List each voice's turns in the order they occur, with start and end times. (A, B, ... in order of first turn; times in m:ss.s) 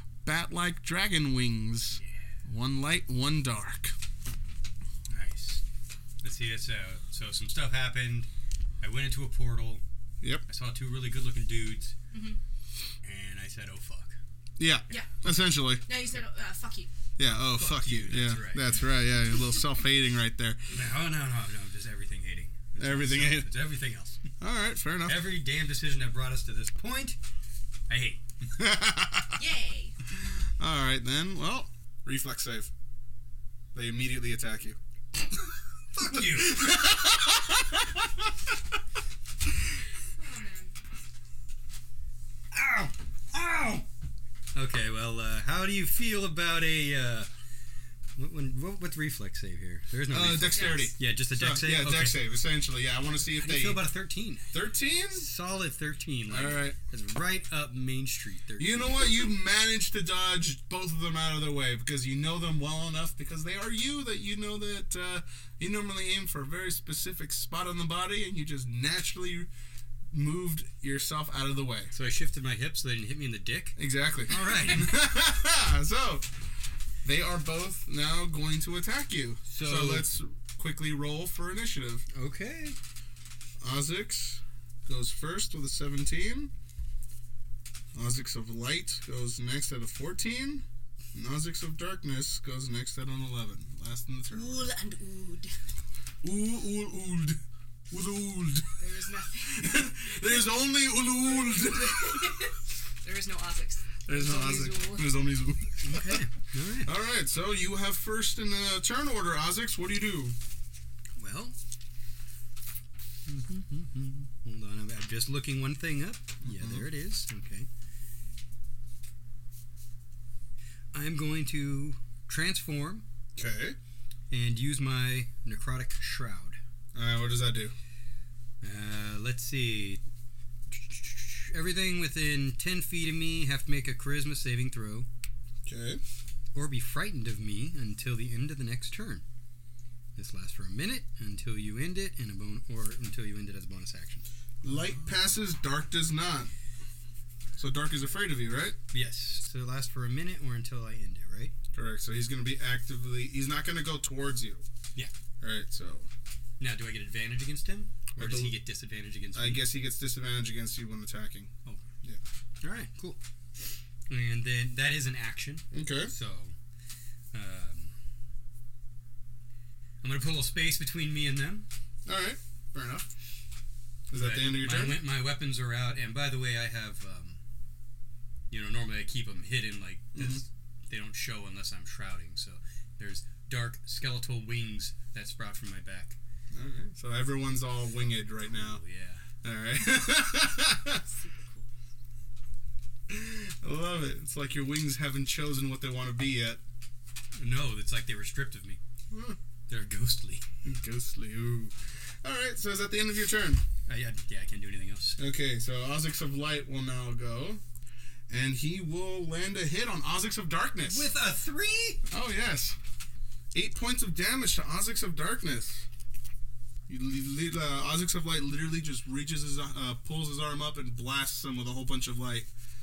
0:00.2-0:04.0 A
0:05.1-0:05.6 B
0:06.2-0:08.3 B
0:08.8-0:09.8 B
0:10.5-0:12.0 B
0:12.1-0:12.4 C
0:13.0-0:14.2 B
0:14.6-0:15.9 A
0:15.9-0:16.9 C
0:17.2-0:20.6 A
0:17.5-0:19.0 B
0:20.7-0:24.2 B
0:22.8-0:23.6 A
0:24.4-0:25.3 A
0:25.0-0:27.2 B
0:27.9-0:28.2 B
0:28.6-0:29.4 A
0:29.4-0:30.0 C
0:30.2-0:32.7 A
0:33.7-0:34.8 A
0:36.0-0:36.8 B
0:36.0-0:38.3 A
0:40.1-0:40.8 C
0:42.5-0:43.9 B
0:44.5-0:47.3 B
0:48.2-0:52.2 B
0:50.1-0:53.8 A
0:53.3-0:54.6 B
0:54.5-0:55.3 A
0:55.1-0:59.1 B
0:56.3-0:56.8 A
0:58.6-1:09.5 A
1:10.1-1:11.9 A
1:11.9-1:13.8 B
1:13.8-1:16.3 A
1:14.3-1:15.0 B
1:17.0-1:22.1 A
1:19.5-1:20.1 B
1:22.1-1:22.8 B
1:23.6-1:26.5 A
1:28.0-1:34.7 A
1:34.3-1:35.5 C
1:36.2-1:37.4 A
1:37.9-1:38.8 A
1:38.8-1:39.9 C
1:39.4-1:42.5 A
1:41.4-1:45.1 C
1:44.1-1:46.3 A
1:45.8-1:46.9 B
1:46.8-1:50.4 A
1:51.2-1:51.6 B
1:53.3-1:57.7 B
1:56.4-1:56.9 A
2:00.9-2:03.0 B
2:03.4-2:03.8 A
2:04.3-2:06.6 B
2:06.9-2:07.7 A
2:08.6-2:10.0 B
2:10.7-2:15.1 B
2:15.7-2:16.0 A
2:16.5-2:19.2 B
2:20.2-2:24.3 B
2:24.6-2:26.5 A
2:27.6-2:28.8 A
2:28.9-2:31.5 B
2:31.7-2:34.6 A
2:35.4-2:36.1 A
2:36.6-2:39.7 B
2:38.2-2:38.6 A
2:39.4-2:41.5 A
2:42.6-2:43.2 B
2:44.1-2:46.6 B
2:45.7-2:46.1 A
2:47.3-2:47.9 B
2:50.0-2:51.7 B
2:52.1-2:53.1 A
2:54.1-2:55.0 A
2:54.1-2:57.4 B
2:58.5-3:06.2 B
3:00.2-3:00.4 A
3:06.5-3:08.8 A
3:08.3-3:09.2 B
3:09.4-3:11.0 A
3:11.0-3:11.7 C
3:13.1-3:16.6 A
3:17.4-3:18.8 B
3:19.1-3:19.4 A
3:19.7-3:20.4 B
3:20.6-3:23.6 A
3:23.9-3:25.2 B
3:25.2-3:27.6 A
3:28.3-3:31.1 A
3:30.9-3:32.0 B
3:32.1-3:32.8 A
3:33.5-3:35.9 A
3:36.9-3:42.5 A